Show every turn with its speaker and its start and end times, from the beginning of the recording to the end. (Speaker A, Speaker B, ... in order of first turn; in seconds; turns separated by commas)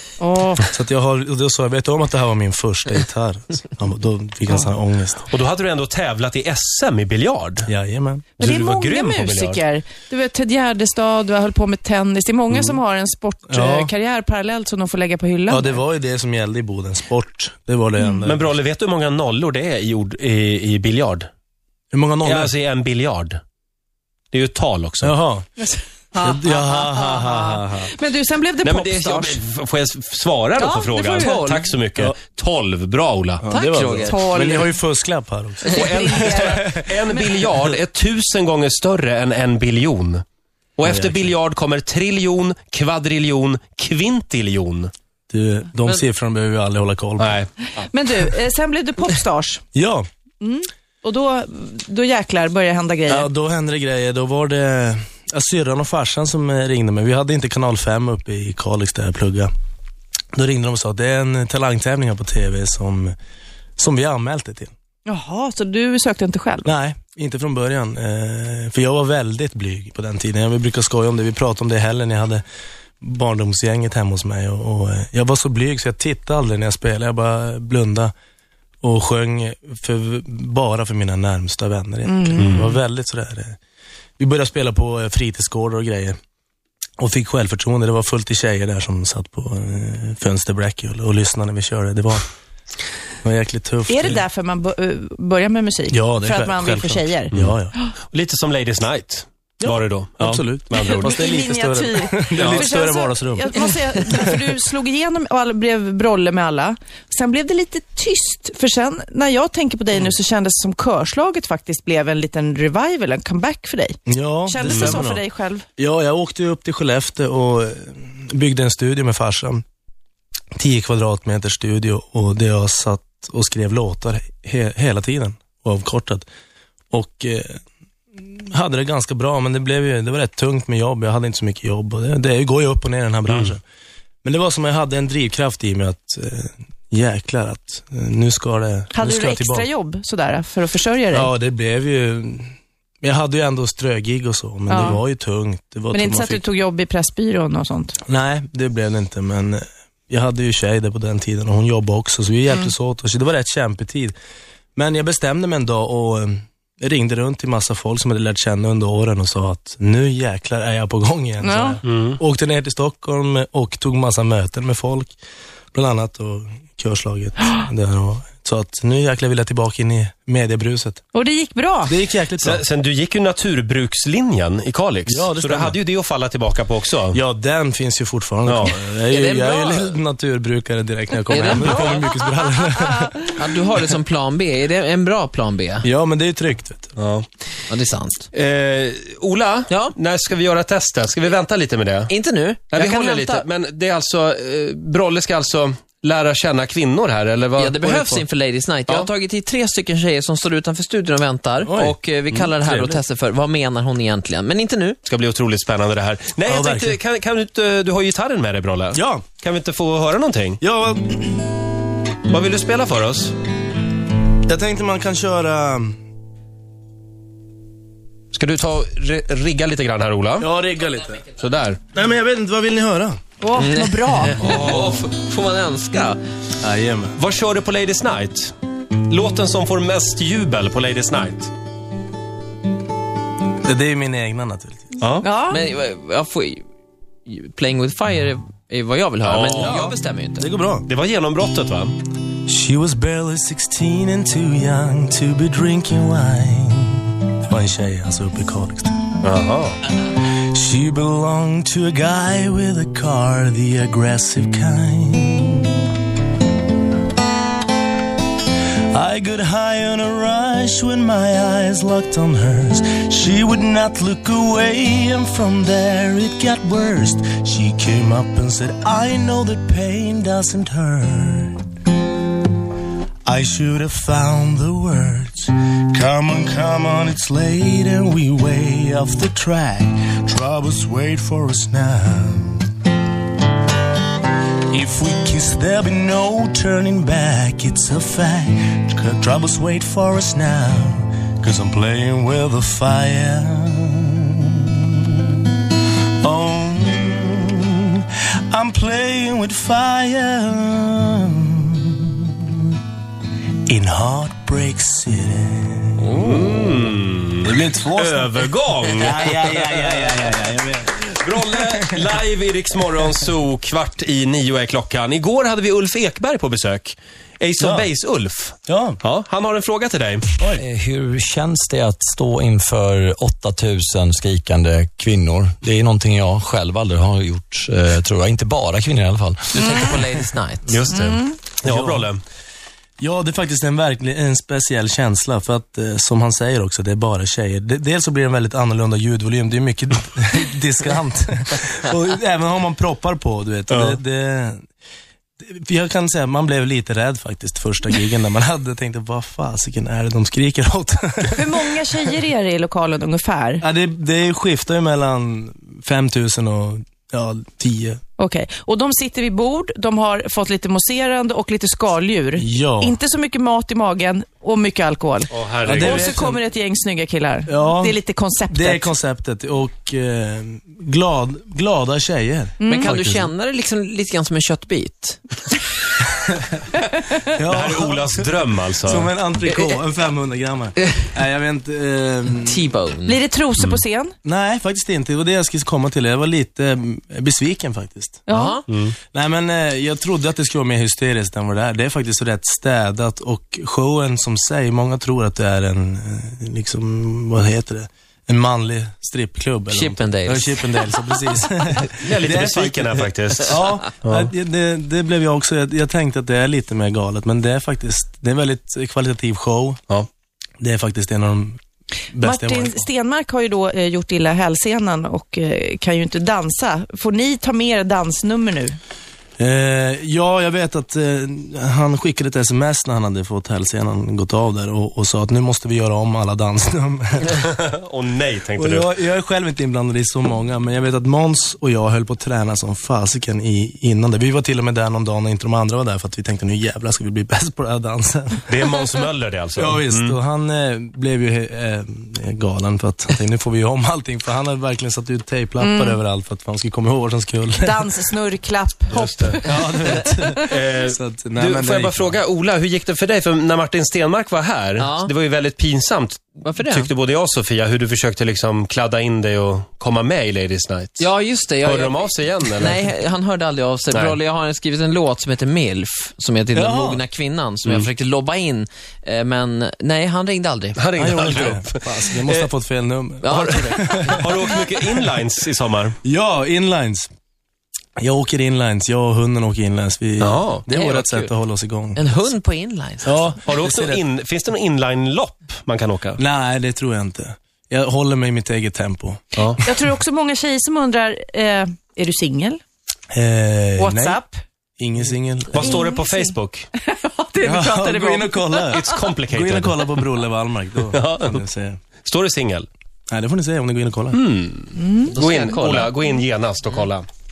Speaker A: 0.2-0.6, Speaker B: 0.6-5.2, Speaker C: 5.3-7.7, Speaker B: 7.7-8.3, Speaker C: 8.4-9.6, Speaker A: 8.4-15.8, Speaker B: 13.5-13.9, Speaker B: 15.5-18.5, Speaker A: 18.0-18.2, Speaker C: 18.2-21.3, Speaker B: 21.9-22.5, Speaker C: 22.2-23.4, Speaker C: 24.3-25.2, Speaker B: 25.0-25.4, Speaker A: 25.6-29.4, Speaker B: 26.2-27.9, Speaker C: 28.6-33.4, Speaker A: 30.5-31.7, Speaker B: 33.4-36.9, Speaker D: 33.5-34.2, Speaker A: 34.1-34.8, Speaker C: 35.7-40.2, Speaker A: 35.7-37.5, Speaker C: 40.8-44.9, Speaker B: 40.8-41.3, Speaker B: 45.3-47.4, Speaker C: 47.2-47.8, Speaker A: 47.8-49.6, Speaker B: 49.7-50.0, Speaker A: 50.4-53.3, Speaker B: 53.1-59.5, Speaker B: 60.3-63.1, Speaker B: 63.8-64.7, Speaker A: 65.0-66.7, Speaker B: 66.6-72.4, Speaker B: 73.0-78.1, Speaker B: 78.8-83.6, Speaker A: 82.0-82.5, Speaker C: 82.4-82.8, Speaker B: 84.2-86.2, Speaker B: 87.0-92.3, Speaker B: 93.2-94.2, Speaker A: 93.9-97.3, Speaker B: 95.9-97.7, Speaker C: 98.1-101.3, Speaker B: 99.6-103.5, Speaker A: 100.8-115.7, Speaker C: 102.3-102.8, Speaker B: 104.1-104.4, Speaker B: 114.1-115.2, Speaker C: 114.7-115.0, Speaker B: 115.8-119.6, Speaker B: 120.5-126.2, Speaker B: 126.9-127.6, Speaker B: 128.2-133.6, Speaker B: 134.2-139.7, Speaker A: 138.9-141.3, Speaker B: 141.1-146.4, Speaker A: 144.7-145.0, Speaker A: 145.9-148.0, Speaker B: 148.1-154.1, Speaker B: 154.8-165.1, Speaker A: 161.4-161.8, Speaker C: 161.8-162.2, Speaker B: 165.7-171.0, Speaker A: 171.1-171.9, Speaker B: 171.8-172.6, Speaker C: 172.4-177.2, Speaker B: 175.1-175.8, Speaker B: 177.1-183.3, Speaker C: 178.4-178.7, Speaker D: 179.1-179.9, Speaker D: 181.3-182.1, Speaker D: 183.3-185.9, Speaker B: 185.8-186.9, Speaker C: 187.0-187.2, Speaker D: 187.7-188.3, Speaker C: 188.3-192.1, Speaker D: 192.1-193.4, Speaker C: 192.7-198.2, Speaker D: 197.6-205.0, Speaker B: 201.6-202.0, Speaker B: 202.5-203.0, Speaker C: 205.0-210.6, Speaker B: 206.4-207.0, Speaker B: 208.9-209.2, Speaker B: 210.6-211.3, Speaker C: 212.3-213.3, Speaker B: 214.4-216.0, Speaker C: 218.3-220.5, Speaker B: 220.4-221.2, Speaker C: 221.3-221.8, Speaker B: 221.9-223.2, Speaker A: 223.4-224.4, Speaker D: 223.6-226.2, Speaker C: 224.4-225.0, Speaker B: 226.6-227.1, Speaker C: 227.2-228.5, Speaker C: 229.1-231.5, Speaker B: 233.6-234.9, Speaker C: 235.0-235.3, Speaker A: 235.2-235.6, Speaker D: 235.5-236.6, Speaker D: 237.2-240.5, Speaker C: 239.2-239.9, Speaker B: 239.6-240.9, Speaker C: 240.9-241.9, Speaker B: 242.5-248.9, Speaker C: 249.2-249.8, Speaker B: 250.2-255.8, Speaker B: 258.9-271.6, Speaker B: 273.2-282.7, Speaker B: 284.7-295.4, Speaker B: 296.2-302.7, Speaker B: 303.7-306.4, Speaker C: 306.0-310.1, Speaker B: 307.4-312.2, Speaker C: 311.1-320.3, Speaker B: 317.6-317.9, Speaker B: 318.7-319.0, Speaker E: 320.6-330.2, Speaker D: 329.5-330.8, Speaker C: 330.7-332.2, Speaker A: 330.9-331.4, Speaker B: 331.6-332.1, Speaker B: 333.0-344.6, Speaker C: 343.7-344.0, Speaker B: 345.4-351.7, Speaker A: 351.3-353.6, Speaker B: 353.6-358.0, Speaker A: 358.2-368.9, Speaker B: 362.4-363.0, Speaker C: 365.3-366.2, Speaker B: 365.6-366.4, Speaker B: 367.5-367.9, Speaker B: 368.5-373.3, Speaker A: 372.6-373.0, Speaker D: 372.6-375.2, Speaker B: 377.3-378.3, Speaker C: 377.5-379.1, Speaker B: 378.8-382.6, Speaker D: 382.4-383.2, Speaker A: 383.0-384.1, Speaker B: 384.2-388.2, Speaker A: 388.3-388.6, Speaker D: 388.3-388.6, Speaker C: 388.7-388.9, Speaker B: 389.1-409.8, Speaker D: 399.7-400.6, Speaker C: 401.8-404.3, Speaker B: 410.6-411.6, Speaker B: 412.1-412.9, Speaker A: 412.1-418.8, Speaker B: 419.4-427.4, Speaker C: 427.3-428.9, Speaker B: 428.6-438.5, Speaker C: 438.5-440.2, Speaker B: 439.6-447.8, Speaker A: 445.6-446.0, Speaker A: 447.5-449.6, Speaker C: 448.9-449.4, Speaker B: 449.2-452.2, Speaker C: 450.5-462.8, Speaker D: 454.8-455.1, Speaker D: 456.4-456.9, Speaker D: 461.0-470.8, Speaker C: 463.9-464.2, Speaker B: 466.5-467.0, Speaker C: 470.8-472.5, Speaker B: 470.9-475.1, Speaker D: 473.2-474.1, Speaker C: 473.3-475.9, Speaker B: 476.0-477.1, Speaker B: 478.0-482.0, Speaker C: 480.2-480.6, Speaker D: 480.7-481.3, Speaker D: 481.9-483.3, Speaker B: 483.0-484.0, Speaker C: 483.4-486.2, Speaker B: 486.2-489.7, Speaker A: 489.6-492.6, Speaker B: 493.1-494.2, Speaker A: 493.8-494.4, Speaker B: 494.8-495.8, Speaker C: 495.5-496.7, Speaker A: 495.7-499.0, Speaker B: 497.4-501.8, Speaker C: 498.7-500.0, Speaker C: 500.9-501.4, Speaker C: 502.0-502.7, Speaker B: 503.1-504.2, Speaker C: 504.1-507.1, Speaker A: 504.7-505.1, Speaker D: 505.0-506.0